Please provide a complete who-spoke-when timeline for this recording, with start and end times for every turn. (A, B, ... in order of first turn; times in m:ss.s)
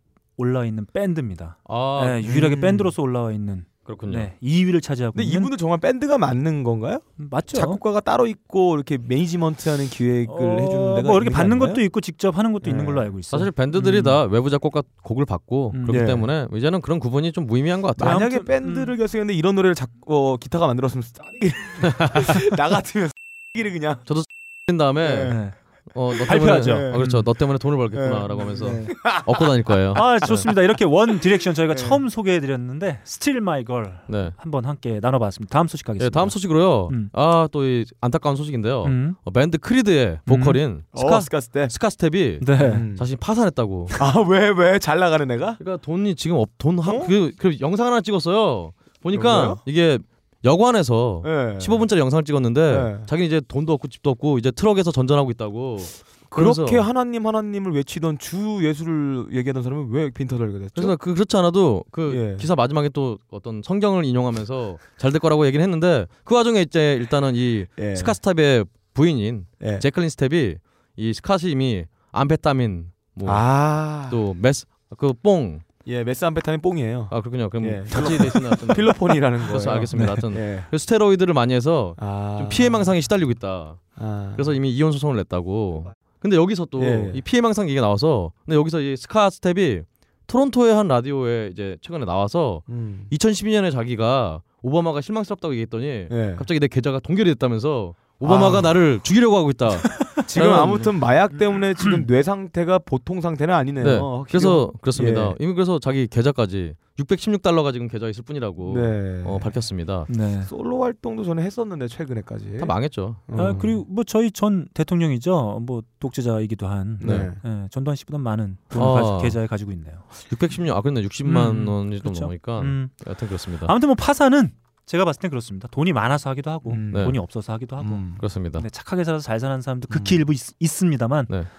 0:00.4-0:05.5 A
0:01.7-0:02.3 B
0:02.2-0:02.9 C
0:03.9-0:04.3 B
0:05.1-0:11.8 C
0:07.2-0:07.8 A
0:10.3-0:14.2 A
0:12.6-0:13.1 C
0:13.3-0:18.2 B
0:15.9-0:16.3 C
0:18.0-0:24.1 C
0:18.0-0:18.9 A
0:21.8-0:22.4 B
0:24.1-0:30.5 B
0:25.0-0:25.4 C
0:25.2-0:25.6 A
0:26.2-0:27.1 A
0:26.3-0:27.3 C
0:27.9-0:30.4 C
0:28.6-0:29.1 A
0:29.9-0:37.1 A
0:31.7-0:32.0 C
0:34.1-0:34.4 B
0:36.0-0:44.0 B
0:38.8-0:39.2 A
0:40.3-0:40.6 A
0:40.9-0:41.7 C
0:42.4-0:42.8 A
0:42.6-0:43.1 C
0:44.0-0:45.6 C
0:45.6-0:56.8 B
0:46.8-0:47.1 C
0:49.1-0:49.6 C
0:51.2-0:51.9 C
0:52.7-0:53.1 C
0:56.3-1:01.0 C
1:00.8-1:15.6 B
1:02.1-1:02.5 C
1:07.8-1:08.2 C
1:09.6-1:09.8 C
1:13.2-1:14.2 C
1:15.9-1:20.7 C
1:17.1-1:23.8 B
1:19.9-1:20.2 A
1:22.0-1:22.9 C
1:24.0-1:24.5 C
1:24.4-1:40.9 B
1:26.8-1:27.2 C
1:32.7-1:33.1 C
1:36.1-1:36.5 C
1:38.2-1:38.8 C
1:40.3-1:45.4 C
1:43.8-1:50.1 B
1:48.6-1:49.6 C
1:50.1-1:50.5 A
1:50.4-1:53.8 C
1:52.6-1:53.6 B
1:53.4-2:00.0 A
1:57.0-1:57.4 C
1:57.0-1:57.3 B
1:58.7-1:59.4 B
2:00.2-2:03.7 B
2:01.2-2:02.9 A
2:03.7-2:08.0 A
2:06.7-2:07.1 C
2:07.8-2:08.2 C
2:08.2-2:08.7 B
2:08.6-2:11.3 A
2:09.9-2:10.2 C